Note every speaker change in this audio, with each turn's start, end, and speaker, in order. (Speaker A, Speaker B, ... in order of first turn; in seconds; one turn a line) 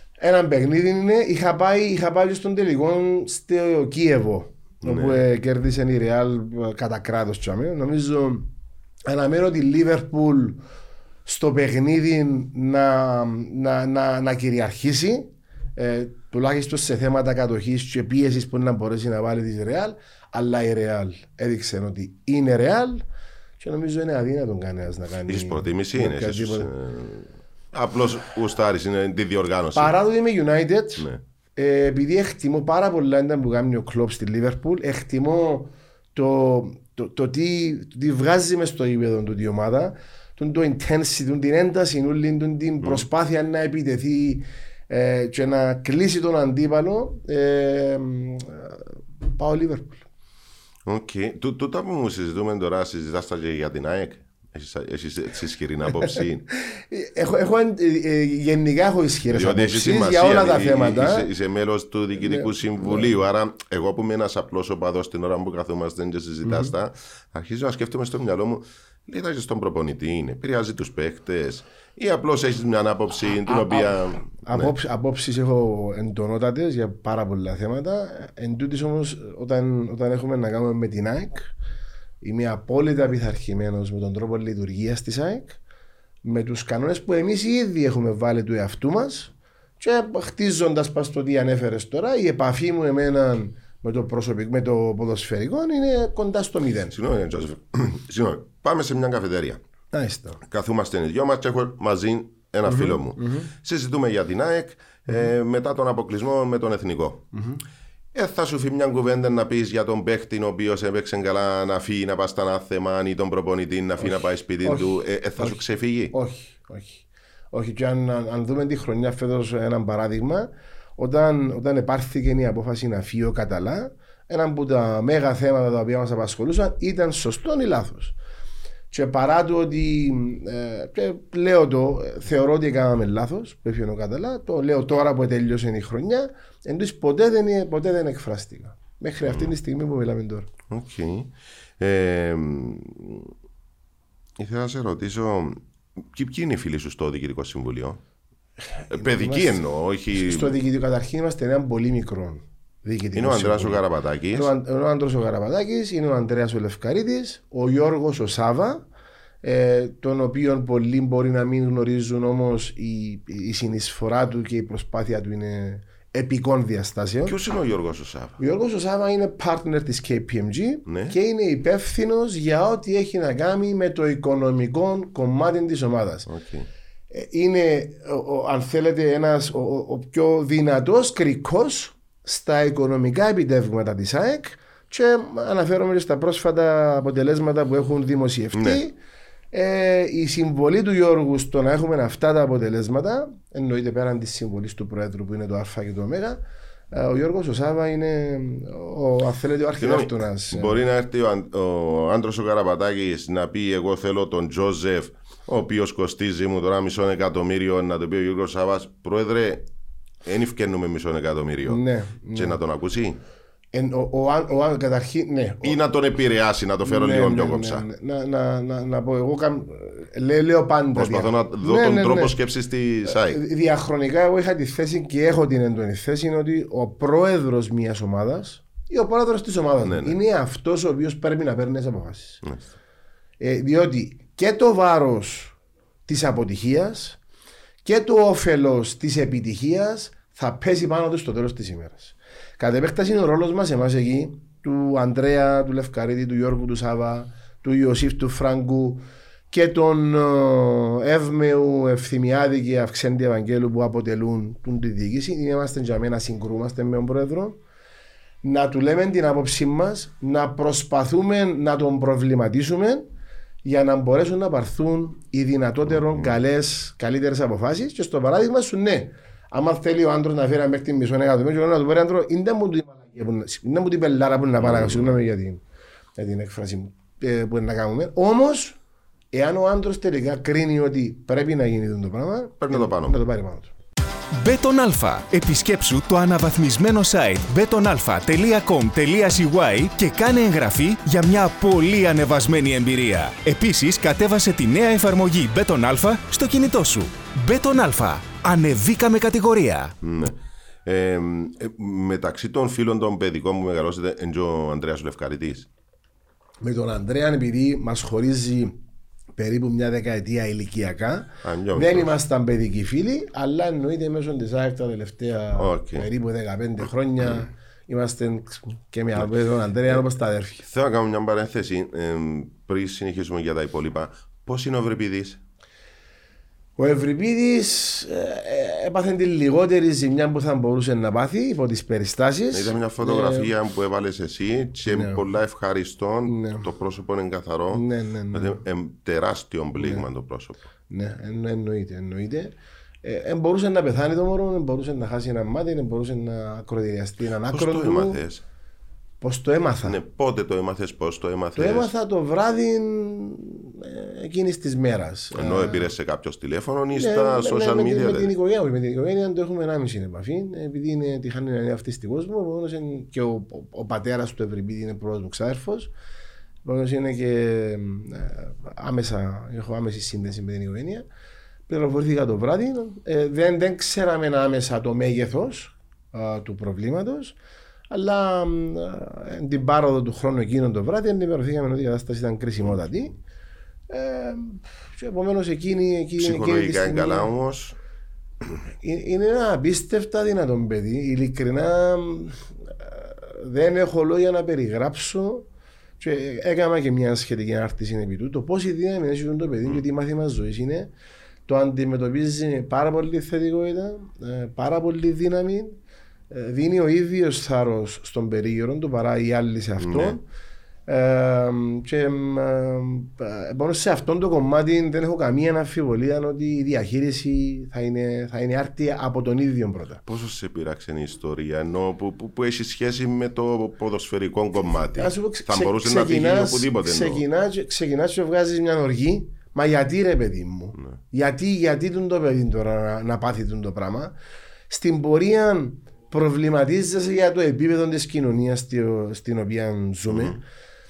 Speaker A: 0.2-8.5
Speaker B: 4.8-5.2
Speaker A: 9.1-10.6
Speaker A: 11.2-23.1
Speaker A: 23.6-26.7
Speaker B: 25.3-30.0
Speaker A: 29.8-50.0
Speaker B: 50.9-56.4
Speaker A: 56.0-61.3
Speaker B: 59.3-74.7
Speaker A: 62.2-63.1
Speaker A: 66.4-66.7
Speaker A: 73.2-81.5
Speaker A: 82.2-85.6
Speaker A: 86.2-97.0
Speaker B: 96.9-99.6
Speaker A: 99.9-100.4
Speaker B: 100.4-107.3
Speaker A: 102.7-103.5
Speaker A: 107.3-107.6
Speaker B: 108.1-116.1
Speaker A: 114.0-128.2
Speaker A: 128.9-140.5
Speaker B: 139.2-139.5
Speaker B: 140.7-143.3
Speaker B: 144.4-148.0
Speaker A: 148.7-149.6
Speaker B: 148.9-150.6
Speaker A: 150.1-158.8
Speaker B: 153.2-154.5
Speaker A: 159.4-167.3
Speaker B: 167.3-168.4
Speaker A: 168.4-176.3
Speaker B: 170.8-171.2
Speaker B: 176.3-176.7
Speaker A: 177.1-188.9
Speaker B: 188.5-188.8
Speaker A: 189.5-200.8
Speaker B: 199.8-209.7
Speaker B: 210.2-213.2
Speaker A: 211.7-212.6
Speaker A: 213.7-215.8
Speaker B: 215.6-217.8
Speaker A: 216.8-222.4
Speaker B: 220.9-223.4
Speaker A: 223.1-232.4
Speaker B: 229.8-230.2
Speaker A: 233.4-235.6
Speaker A: 236.1-237.2
Speaker A: 237.8-257.6
Speaker A: 258.4-263.1
Speaker A: 263.6-275.6
Speaker B: 274.6-275.2
Speaker A: 276.2-278.8
Speaker A: 279.3-283.7
Speaker B: 282.6-283.2
Speaker C: 284.4-299.9
Speaker B: 300.0-305.7
Speaker A: 306.6-308.8
Speaker A: 309.4-320.6
Speaker B: 311.4-312.1
Speaker B: 315.6-316.1
Speaker B: 320.6-325.4
Speaker A: 326.8-333.5
Speaker B: 332.5-340.6
Speaker A: 334.9-335.2
Speaker A: 336.3-336.7
Speaker A: 337.7-338.6
Speaker A: 339.8-340.1
Speaker A: 340.9-348.2
Speaker B: 347.5-348.4
Speaker A: 349.2-350.0
Speaker B: 349.8-351.9
Speaker A: 351.6-355.9
Speaker B: 355.3-358.3
Speaker A: 356.9-365.9
Speaker A: 366.6-371.1
Speaker A: 371.7-377.4
Speaker A: 377.9-383.2
Speaker A: 383.9-387.3
Speaker B: 386.2-387.8
Speaker A: 388.8-395.5
Speaker A: 396.0-400.9
Speaker A: 401.5-405.8
Speaker A: 406.3-410.2
Speaker B: 409.8-410.2
Speaker A: 410.9-420.0
Speaker B: 420.1-427.2
Speaker A: 424.7-434.1
Speaker A: 434.7-440.4
Speaker B: 440.1-440.4